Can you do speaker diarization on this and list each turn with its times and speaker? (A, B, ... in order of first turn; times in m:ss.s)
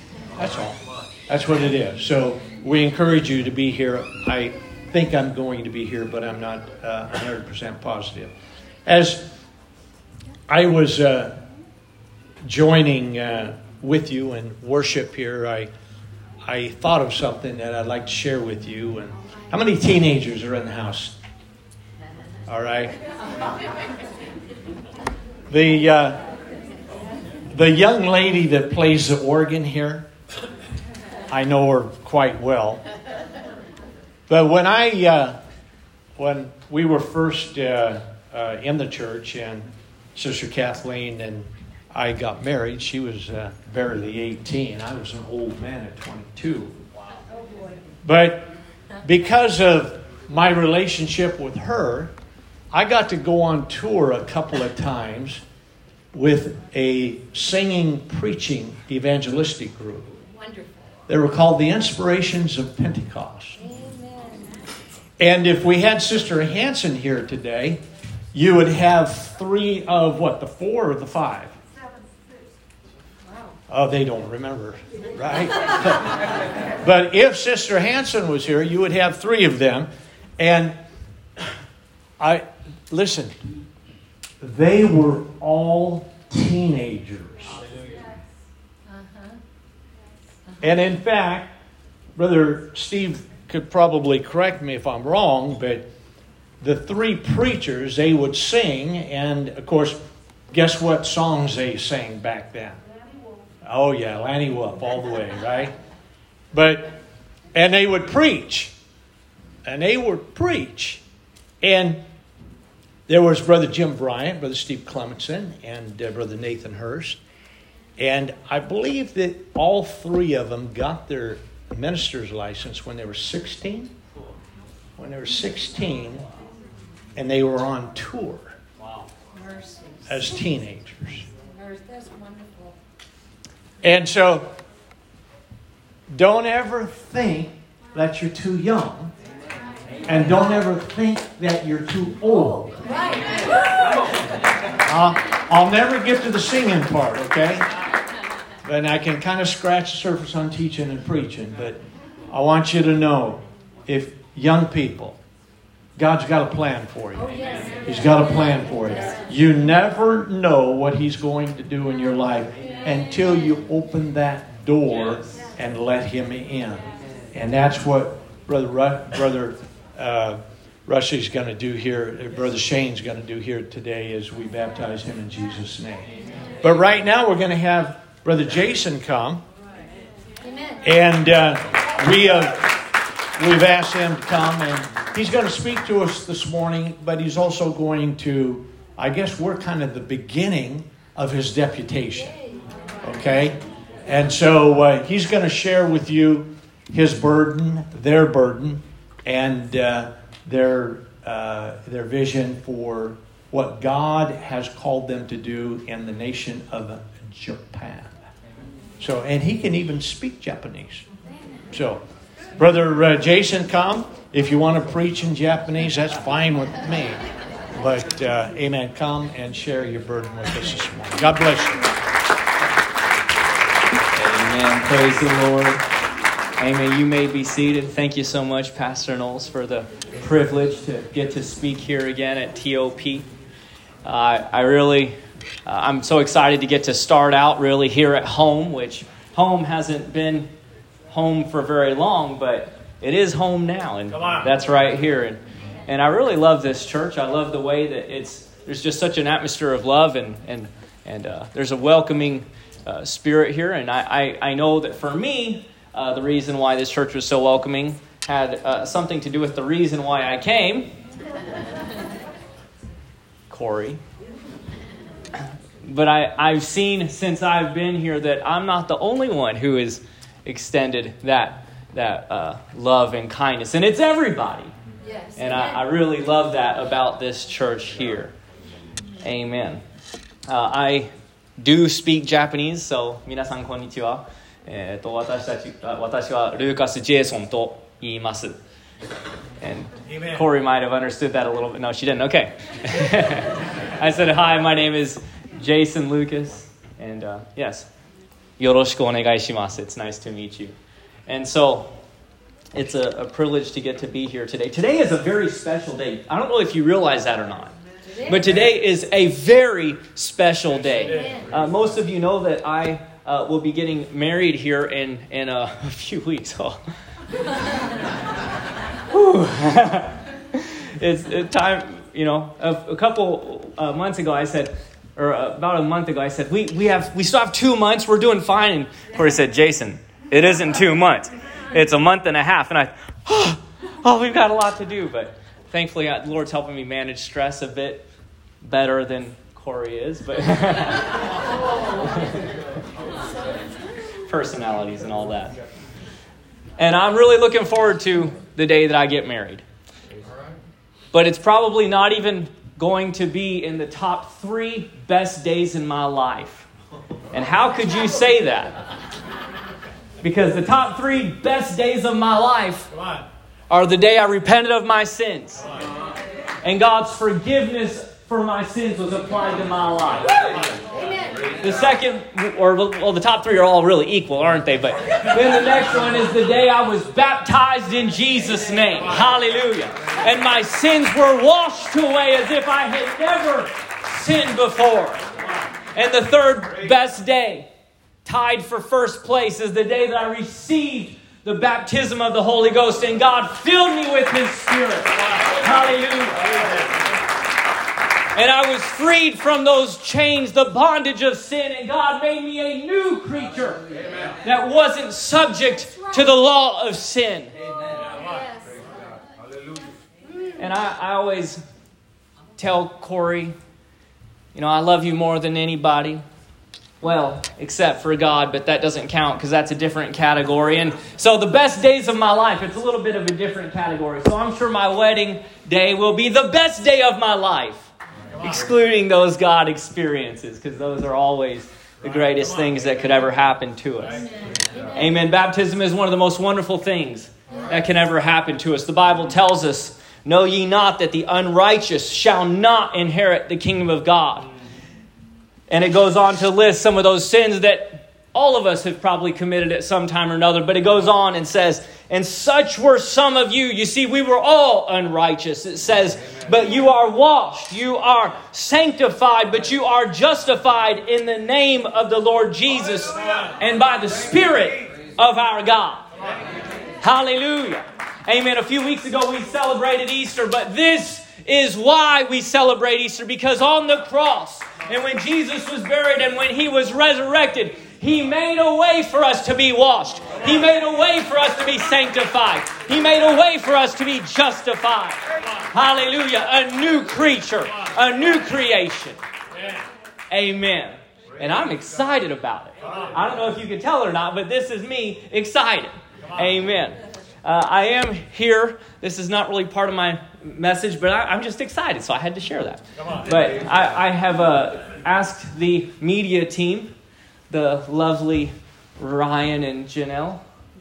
0:00.3-0:08.3 A
0:08.8-0:09.3 A
0:10.5-0:11.4 A
0:12.4-0:15.7 A
0:16.4-0:21.2 A
0:22.5-0:23.0 A
0:25.5-0:26.2 A
0:27.5-0:30.1 A
0:31.3-0:32.8 A
0:34.3-0:35.4 A
0:36.2-0:46.7 A
0:48.0-0:48.5 A
0:49.0-0:52.1 A
0:52.7-0:55.4 A
0:56.1-1:00.1 A
1:00.4-1:00.7 B
1:01.1-1:03.6 A
1:03.6-1:04.5 B
1:05.2-1:07.8 A
1:08.3-1:11.5 A
1:13.7-1:16.2 A
1:16.8-1:20.8 A
1:22.2-1:23.4 A
1:24.4-1:27.6 A
1:28.9-1:29.4 B
1:30.6-1:31.5 A
1:32.2-1:35.8 A
1:36.6-1:40.0 A
1:40.5-1:42.8 A
1:43.6-1:45.7 A
1:46.5-1:47.0 A
1:47.5-1:48.8 A
1:49.6-1:51.0 A
1:51.6-1:52.0 A
1:53.1-1:57.2 A
1:58.0-2:03.9 A
2:05.0-2:06.2 A
2:07.2-2:08.6 A
2:09.4-2:10.0 B
2:10.1-2:11.3 A
2:11.5-2:12.7 B
2:13.8-2:14.5 A
2:16.1-2:19.1 A
2:20.1-2:22.8 A
2:23.2-2:23.6 B
2:24.8-2:27.7 A
2:28.6-2:35.2 A
2:36.0-2:56.1 A
2:37.2-2:37.8 B
2:56.6-2:59.4 A
3:00.4-3:00.8 B
3:00.8-3:02.8 A
3:03.4-3:12.4 A
3:13.0-3:28.1 A
3:29.0-3:31.0 A
3:31.7-3:32.0 A
3:32.6-3:37.2 A
3:37.8-3:41.9 A
3:44.1-3:45.8 C
3:46.6-3:53.2 C
3:54.0-4:00.5 C
4:01.1-4:20.9 C
4:23.5-4:24.0 C
4:25.8-4:34.7 C
4:35.0-4:35.8 B
4:35.4-4:38.3 C
4:39.2-4:39.8 C
4:40.5-4:48.6 C
4:49.6-4:57.9 C
4:58.6-5:00.8 C
5:01.3-5:01.9 C
5:02.7-5:07.8 C
5:08.2-5:16.8 C
5:19.1-5:38.1 C
5:38.6-5:41.1 C
5:42.0-5:42.4 C
5:44.3-5:45.5 C
5:46.8-5:49.6 C
5:51.1-5:56.7 C
5:57.3-5:58.8 C
6:00.2-6:02.9 C
6:03.7-6:05.8 C
6:06.6-6:10.6 C
6:10.9-6:11.5 B
6:11.6-6:25.2 C
6:25.9-6:27.7 C
6:28.2-6:36.8 C
6:38.3-6:43.8 C
6:44.4-6:47.5 C
6:47.8-6:48.8 B
6:50.6-6:51.6 C
6:52.6-6:53.6 C
6:54.6-6:56.2 C
6:57.0-7:14.2 C
7:14.9-7:24.5 C
7:25.7-7:46.1 C
7:47.0-8:09.2 C
8:10.3-8:26.9 C
8:27.5-8:30.4 C